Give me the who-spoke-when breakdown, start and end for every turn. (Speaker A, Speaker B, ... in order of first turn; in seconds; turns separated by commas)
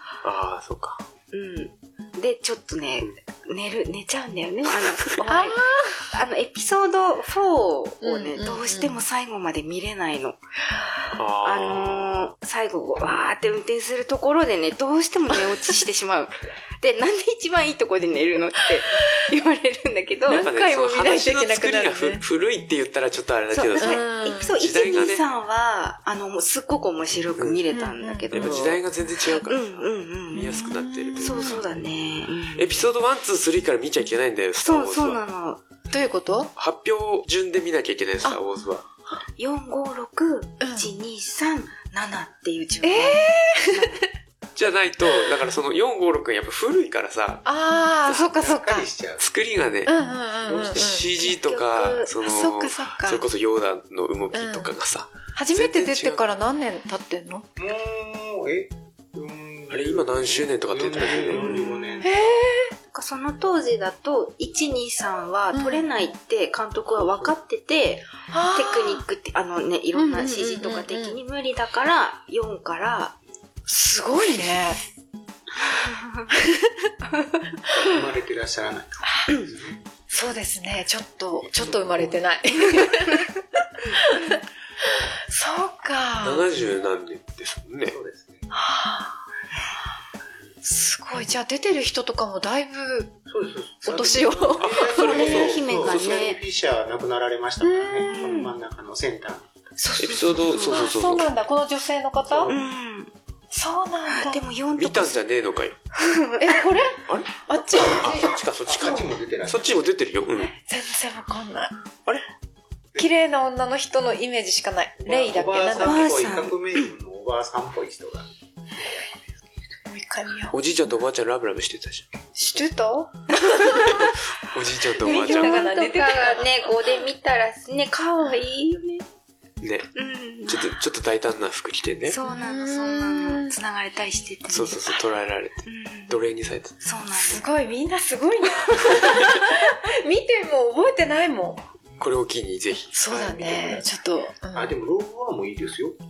Speaker A: 0.2-1.0, Speaker B: 1.3-10.4, Speaker A: 4.8-5.2, Speaker C: 5.2-6.1, Speaker C: 8.0-9.0, Speaker A: 11.1-12.2, Speaker B: 11.4-20.5, Speaker A: 20.3-24.0, Speaker C: 20.3-22.2, Speaker B: 23.5-28.8, Speaker C: 23.8-24.5, Speaker A: 24.6-25.2, Speaker C: 27.7-28.6, Speaker A: 28.3-31.8, Speaker B: 29.3-30.6, Speaker C: 30.3-31.6, Speaker B: 31.2-32.9, Speaker A: 32.5-35.2, Speaker B: 34.6-35.6, Speaker C: 35.9-36.5, Speaker A: 36.6-38.9, Speaker B: 39.4-43.9, Speaker C: 40.6-40.9, Speaker C: 42.8-44.0, Speaker A: 44.5-47.5, Speaker C: 47.4-48.9, Speaker D: 48.1-49.3, Speaker A: 49.2-56.2, Speaker C: 49.9-51.0, Speaker B: 51.2-52.1, Speaker C: 52.2-53.2, Speaker C: 54.3-54.7, Speaker C: 55.3-57.5, Speaker D: 57.6-62.1, Speaker A: 59.7-61.6, Speaker B: 61.0-62.1, Speaker C: 62.0-62.7, Speaker B: 62.9-73.2, Speaker C: 65.5-65.9, Speaker C: 68.3-69.0, Speaker C: 69.9-71.2, Speaker C: 73.7-74.8, Speaker C: 76.3-76.7, Speaker D: 77.7-79.8, Speaker C: 80.1-83.3, Speaker D: 81.6-82.1, Speaker C: 83.9-84.4, Speaker C: 85.3-86.5, Speaker A: 86.2-88.0, Speaker D: 87.9-88.5, Speaker C: 88.5-89.2, Speaker C: 90.6-93.1, Speaker D: 93.3-99.7, Speaker C: 93.8-95.3, Speaker A: 94.5-96.3, Speaker B: 94.9-96.4, Speaker C: 97.6-98.4, Speaker B: 98.1-98.5, Speaker B: 99.8-100.9, Speaker A: 100.0-101.3, Speaker C: 100.7-102.5, Speaker D: 102.3-102.6, Speaker B: 102.5-103.1, Speaker C: 103.5-104.4, Speaker B: 104.1-105.2, Speaker A: 104.8-105.8, Speaker B: 105.9-106.6, Speaker C: 106.4-108.3, Speaker A: 107.1-110.5, Speaker D: 108.7-109.8, Speaker C: 110.4-111.7, Speaker C: 113.0-116.1, Speaker D: 115.0-119.3, Speaker B: 115.8-116.9, Speaker C: 119.8-120.5, Speaker A: 120.5-122.1, Speaker C: 122.3-124.0, Speaker A: 123.8-125.7, Speaker B: 125.0-129.0, Speaker C: 125.0-126.5, Speaker A: 129.6-129.9, Speaker B: 129.9-130.8, Speaker A: 130.5-132.2, Speaker B: 132.1-135.0, Speaker C: 132.2-133.5, Speaker A: 134.5-136.8, Speaker B: 135.7-136.3, Speaker B: 136.8-137.5, Speaker C: 137.1-141.6, Speaker A: 142.0-143.4, Speaker C: 142.9-144.8, Speaker D: 143.1-143.8, Speaker D: 144.5-146.0